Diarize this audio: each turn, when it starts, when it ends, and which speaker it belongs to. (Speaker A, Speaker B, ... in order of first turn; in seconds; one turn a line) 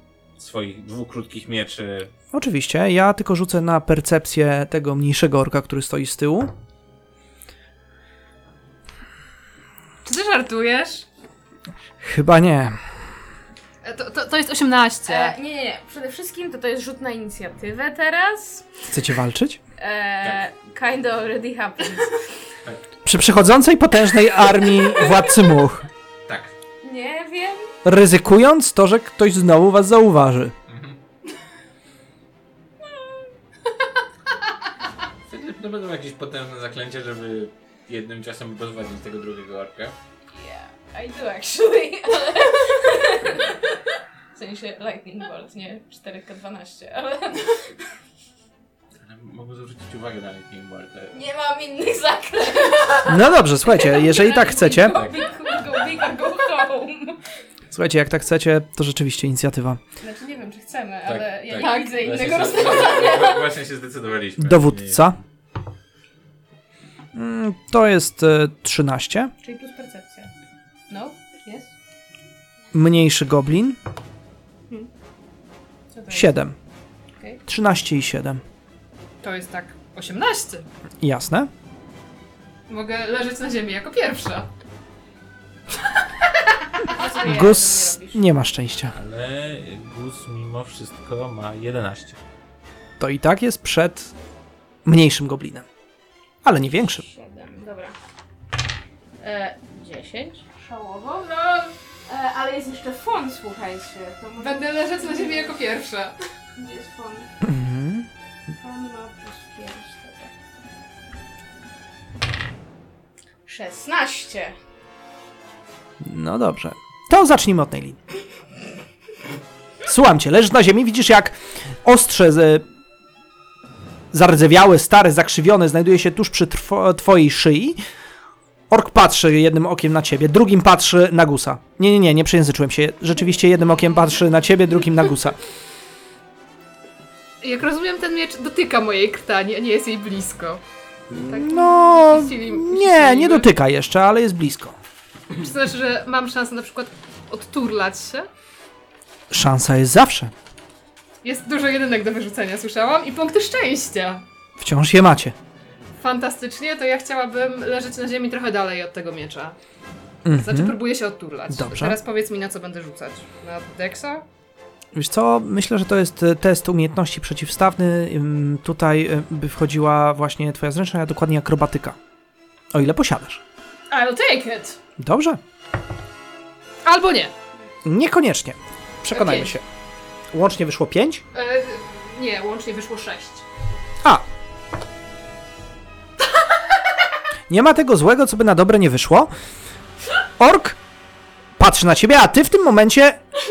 Speaker A: 0.4-2.1
Speaker B: 2.3-6.5
Speaker C: 10.0-11.1
Speaker B: 12.0-13.0
Speaker C: 13.8-15.4
Speaker D: 15.1-18.9
Speaker B: 18.9-19.6
Speaker D: 19.8-22.3
Speaker A: 22.6-22.9
Speaker B: 23.0-25.9
Speaker A: 26.3-26.5
Speaker D: 26.8-27.7
Speaker B: 27.8-30.6
Speaker A: 30.7-31.0
Speaker A: 35.3-40.0
Speaker D: 40.3-47.9
Speaker A: 49.0-51.2
Speaker D: 51.1-57.3
Speaker B: 53.1-55.0
Speaker A: 54.9-55.3
Speaker B: 57.7-59.8
Speaker D: 60.0-63.5
Speaker A: 61.0-65.2
Speaker B: 64.4-65.2
Speaker B: 67.1-69.3
Speaker D: 69.4-70.3
Speaker D: 70.9-71.7
Speaker B: 72.7-73.8
Speaker D: 75.9-76.3
Speaker B: 76.1-76.6
Speaker B: 77.5-78.4
Speaker C: 79.2-80.7
Speaker B: 81.0-81.5
Speaker C: 82.7-84.5
Speaker C: 85.8-87.4
Speaker D: 86.8-88.3
Speaker B: 87.2-89.0
Speaker A: 88.9-92.2
Speaker B: 93.0-94.1
Speaker B: 94.9-95.7
Speaker B: 96.4-97.1
Speaker D: 96.9-98.0
Speaker D: 99.2-105.6
Speaker C: 104.4-106.2
Speaker D: 106.6-107.3
Speaker B: 107.4-108.1
Speaker D: 108.6-110.3
Speaker D: 113.5-114.5
Speaker B: 116.0-118.0
Speaker B: 119.9-122.7
Speaker B: 124.1-127.8
Speaker B: 128.7-135.4
Speaker C: 137.4-140.6
Speaker B: 141.1-144.8
Speaker C: 141.2-143.5
Speaker C: 145.3-148.3
Speaker B: 149.3-150.3
Speaker C: 151.2-154.2
Speaker B: 154.6-155.3
Speaker C: 156.0-159.6
Speaker B: 160.2-160.8
Speaker C: 160.4-164.2
Speaker B: 161.5-162.0
Speaker B: 164.9-172.0
Speaker B: 172.7-173.4
Speaker C: 173.9-174.8
Speaker B: 175.0-175.4
Speaker C: 176.8-177.3
Speaker B: 177.8-179.7
Speaker C: 179.1-179.5
Speaker B: 180.3-181.2
Speaker C: 181.3-183.4
Speaker B: 187.5-189.3
Speaker B: 190.4-190.8
Speaker B: 191.6-193.2